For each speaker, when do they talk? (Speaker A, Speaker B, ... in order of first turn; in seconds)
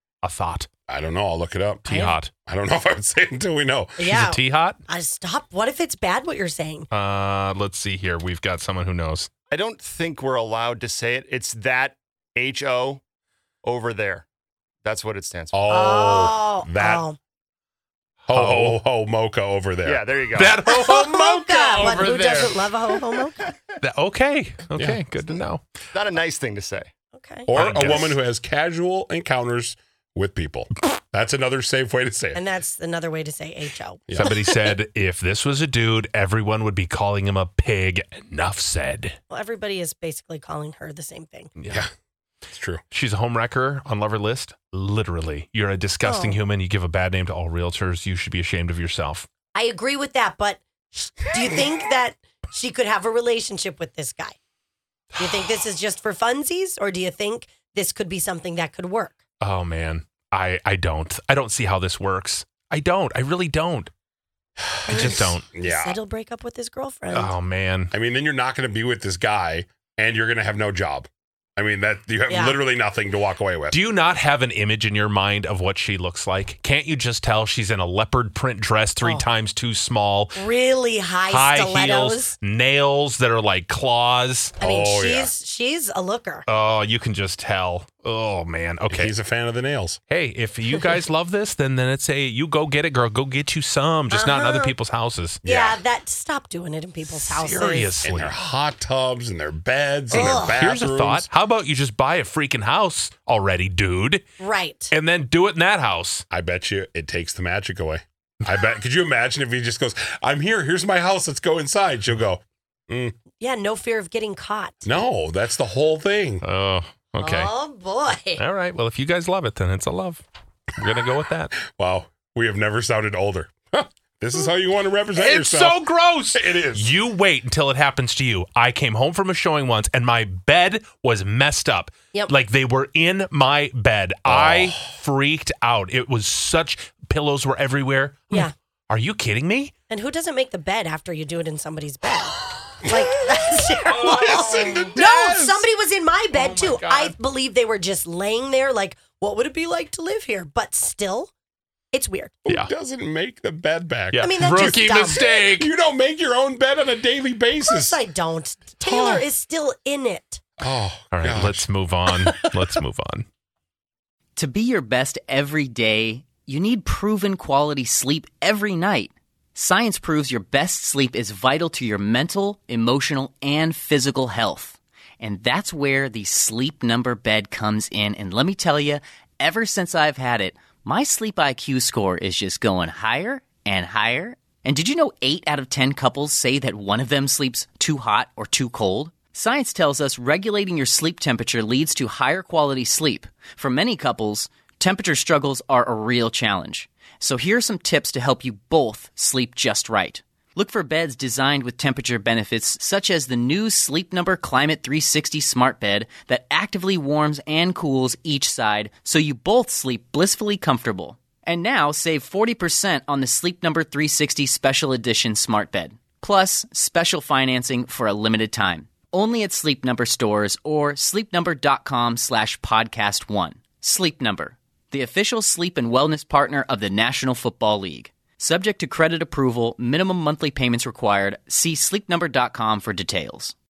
Speaker A: 0.2-0.7, 1.9-2.4, 4.0-4.8, 6.9-9.3, 18.3-18.8, 20.4-22.7, 23.8-25.6, 27.6-28.0, 34.2-39.2, 41.6-41.9, 42.9-49.3, 55.1-55.5, 59.4-63.9, 64.9-65.5, 67.1-67.9, 73.7-80.4, 81.3-84.6, 86.5-89.1, 90.1-95.4, 97.1-98.4, 100.1-104.3, 104.9-106.2, 116.4-117.5, 118.4-120.2, 120.8-121.5, 125.2-139.7, 143.9-144.8, 146.3-147.1, 152.5-152.7, 154.1-155.7, 161.1-163.3
Speaker B: 0.9-4.2, 15.5-17.1, 18.3-20.1, 20.8-22.0, 24.8-25.1, 27.5-32.4, 34.1-34.4, 42.5-42.8, 64.7-66.0, 67.9-73.8, 84.6-85.3, 88.9-90.0, 95.4-95.8, 98.0-101.3, 106.3-113.2, 114.8-116.4, 121.6-127.0, 134.3-134.9, 143.8-145.7, 152.5-158.0, 158.8-159.3, 160.6-161.7
Speaker C: 1.9-2.2, 4.0-6.9, 15.7-17.2, 20.6-23.4, 27.1-27.6, 32.3-34.3, 39.3-41.5, 46.0-46.4, 49.5-54.4, 55.2-59.2, 64.9-67.4, 72.3-72.6, 79.0-79.3, 80.3-82.4, 84.6-86.5, 94.1-94.8, 95.5-98.1, 100.1-100.6, 104.4-105.0, 113.4-114.9, 117.2-118.5, 139.9-151.3, 151.9-152.4, 154.2-155.2, 157.6-160.4
Speaker D: 9.5-13.0, 13.6-14.3, 14.8-15.6, 19.8-20.7, 22.1-22.5, 25.2-26.9, 27.5-28.1
Speaker E: 164.4-233.5